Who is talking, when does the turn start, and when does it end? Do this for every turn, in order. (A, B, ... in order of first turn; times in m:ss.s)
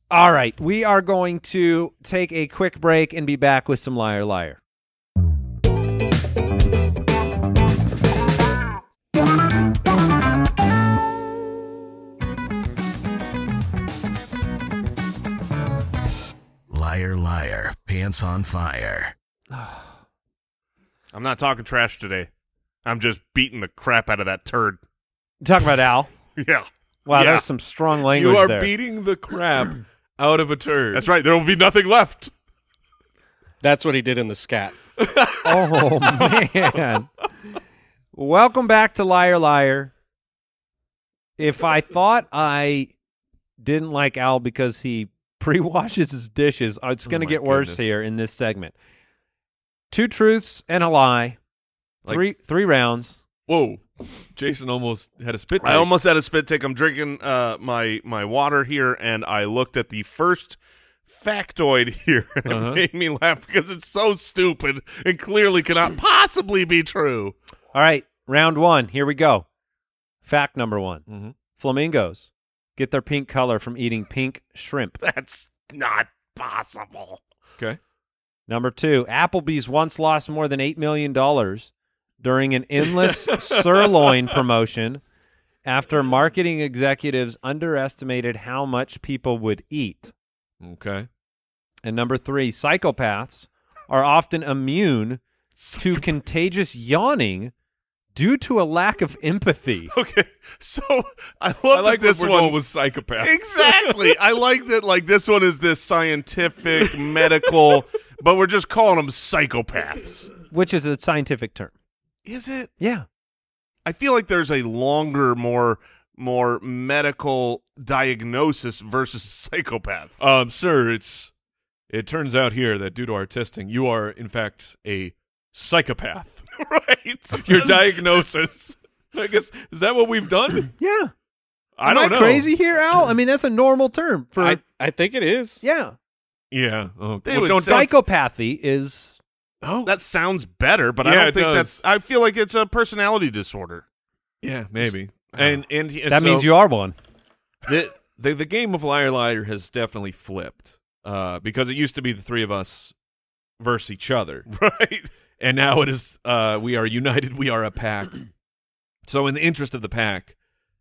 0:00.1-0:04.6 A
0:16.7-0:19.1 B
0:19.5-0:19.9 A
0:21.1-0:22.3 C
0:22.8-0:24.8 C
0:25.4-0:26.1 A
0:26.4-0:27.4 C
0:27.0-0:28.7 A
0:28.1-0:31.1 D
0:30.9-0:32.3 C
0:33.6-0:34.7 E
0:35.0-0:36.0 D
0:35.4-0:37.1 A
0:38.1-0:39.9 A
0:41.4-0:42.9 A
0:43.6-0:48.7 A
0:47.0-0:47.9 D
0:49.9-0:51.4 A
0:52.0-0:53.2 A
0:53.5-0:55.9 D
0:55.6-1:07.3 C
1:02.4-1:02.8 D
1:07.7-1:09.4 A
1:10.2-1:11.0 A
1:11.1-1:11.3 D
1:11.6-1:15.0 A
1:15.0-1:17.2 C
1:18.5-1:25.0 A
1:23.0-1:24.2 D
1:25.6-1:30.1 A
1:30.6-1:31.1 D
1:31.8-1:35.2 A
1:35.6-1:36.0 D
1:35.8-1:37.5 A
1:38.1-1:39.9 A
1:39.9-1:42.6 C
1:41.7-1:44.1 D
1:43.2-1:50.3 C
1:50.5-1:51.7 A
1:52.2-1:52.7 C
1:52.8-1:53.0 A
1:53.8-2:00.2 C
2:00.2-2:01.3 D
2:01.9-2:06.4 D
2:06.5-2:08.0 C
2:07.4-2:10.7 D
2:10.8-2:11.1 A
2:11.8-2:12.5 D
2:11.8-2:14.6 A
2:14.4-2:15.6 E
2:15.6-2:15.9 A
2:16.5-2:17.9 D
2:17.2-2:17.9 C
2:17.6-2:19.2 A
2:19.6-2:19.9 D
2:19.8-2:23.8 C
2:21.0-2:21.8 D
2:24.4-2:26.5 D
2:24.8-2:25.6 C
2:26.1-2:26.9 A
2:27.6-2:32.9 D
2:33.6-2:34.4 D
2:34.5-2:35.1 C
2:35.4-2:38.3 D
2:39.0-2:40.3 D